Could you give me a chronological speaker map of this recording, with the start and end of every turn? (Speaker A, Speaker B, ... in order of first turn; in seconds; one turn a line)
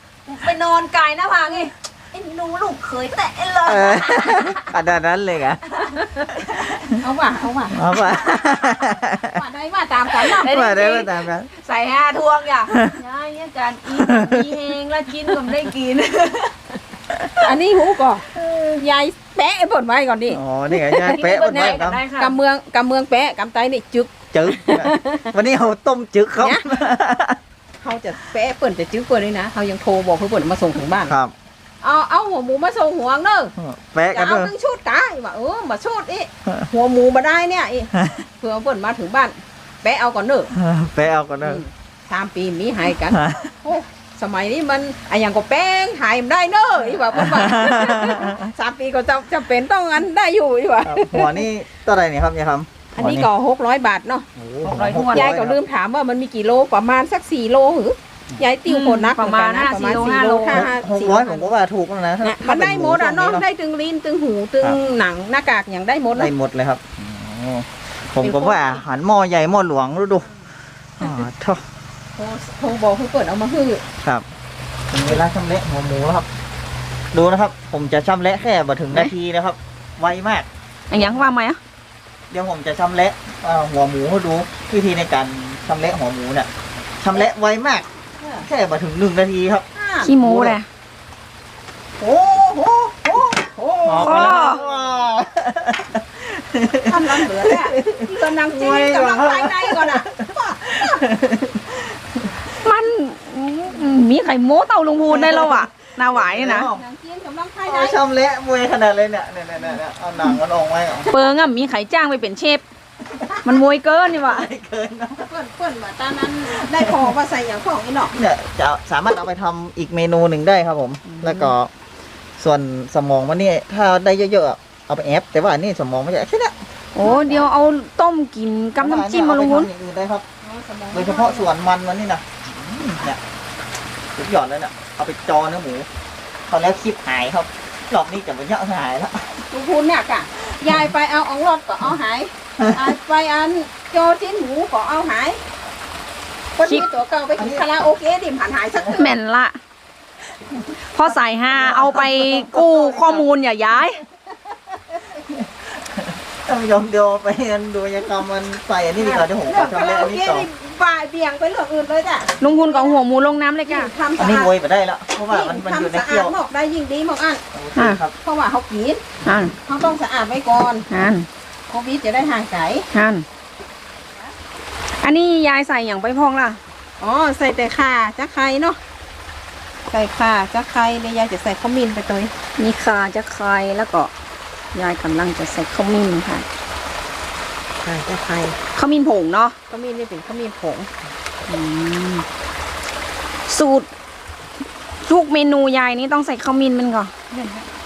Speaker A: 0.3-4.8
Speaker B: 3.6-5.7
Speaker A: 5.7-6.8
Speaker B: 6.3-6.8
Speaker C: 7.0-7.8
Speaker B: 7.7-9.4
Speaker C: 8.6-10.5
Speaker A: 10.2-16.6
Speaker B: 10.3-11.5
Speaker B: 12.7-13.0
Speaker B: 13.9-14.6
Speaker C: 17.4-20.4
Speaker B: 18.3-18.8
Speaker B: 20.3-22.0
Speaker A: 20.7-22.3
Speaker C: 22.2-25.3
Speaker B: 24.3-27.4
Speaker C: 26.4-26.7
Speaker C: 27.8-31.1
Speaker B: 31.0-31.3
Speaker C: 31.8-33.5
Speaker B: 33.5-34.5
Speaker C: 34.1-40.5
Speaker B: 40.5-41.6
Speaker C: 41.4-51.4
Speaker B: 43.1-43.5
Speaker B: 47.1-48.4
Speaker B: 50.8-53.3
Speaker C: 53.0-54.3
Speaker B: 54.4-55.6
Speaker A: 54.6-55.3
Speaker C: 55.1-61.5
Speaker A: 58.6-60.7
Speaker B: 59.8-63.5
Speaker C: 62.2-66.3
Speaker B: 66.1-70.3
Speaker C: 68.2-68.8
Speaker B: 71.0-71.6
Speaker C: 72.2-73.8
Speaker B: 74.9-76.3
Speaker B: 77.1-80.5
Speaker A: 80.9-81.6
Speaker B: 82.3-87.9
Speaker C: 88.2-88.5
Speaker B: 88.4-89.7
Speaker C: 89.7-90.1
Speaker A: 90.0-90.7
Speaker B: 90.2-90.6
Speaker C: 92.0-94.8
Speaker B: 93.8-102.2
Speaker A: 93.9-94.6
Speaker C: 96.8-101.0
Speaker A: 102.6-106.7
Speaker B: 105.1-106.8
Speaker C: 106.5-108.0
Speaker B: 107.7-111.1
Speaker A: 111.1-112.6
Speaker B: 113.2-113.5
Speaker A: 113.4-114.5
Speaker B: 114.1-115.3
Speaker C: 115.1-118.1
Speaker B: 116.4-117.1
Speaker B: 118.1-121.7
Speaker B: 122.4-126.5
Speaker A: 126.9-129.7
Speaker C: 127.0-127.5
Speaker B: 128.8-130.2
Speaker C: 130.4-131.5
Speaker B: 130.9-133.2
Speaker B: 134.1-135.9
Speaker B: 136.5-139.3
Speaker C: 139.5-145.4
Speaker B: 142.6-142.9
Speaker C: 146.6-149.1
Speaker B: 147.4-147.6
Speaker A: 148.9-149.6
Speaker A: 150.9-154.0
Speaker B: 151.5-153.2
Speaker B: 155.1-160.5
Speaker C: 158.9-163.0
Speaker A: 162.4-163.9
Speaker C: 163.7-164.5
Speaker B: 164.2-166.4
Speaker C: 165.3-167.4
Speaker B: 167.5-168.1
Speaker A: 167.8-168.0
Speaker C: 168.2-169.0
Speaker A: 169.2-169.5
Speaker C: 169.6-170.9
Speaker A: 170.9-171.3
Speaker C: 171.7-172.9
Speaker A: 172.9-173.2
Speaker A: 175.0-176.6
Speaker C: 177.0-178.8
Speaker C: 179.9-182.3
Speaker A: 182.6-184.1
Speaker A: 184.7-186.4
Speaker C: 187.8-188.6
Speaker A: 188.7-189.6
Speaker C: 189.7-190.9
Speaker A: 191.5-192.2
Speaker A: 193.5-193.9
Speaker A: 195.0-197.1
Speaker C: 197.3-197.7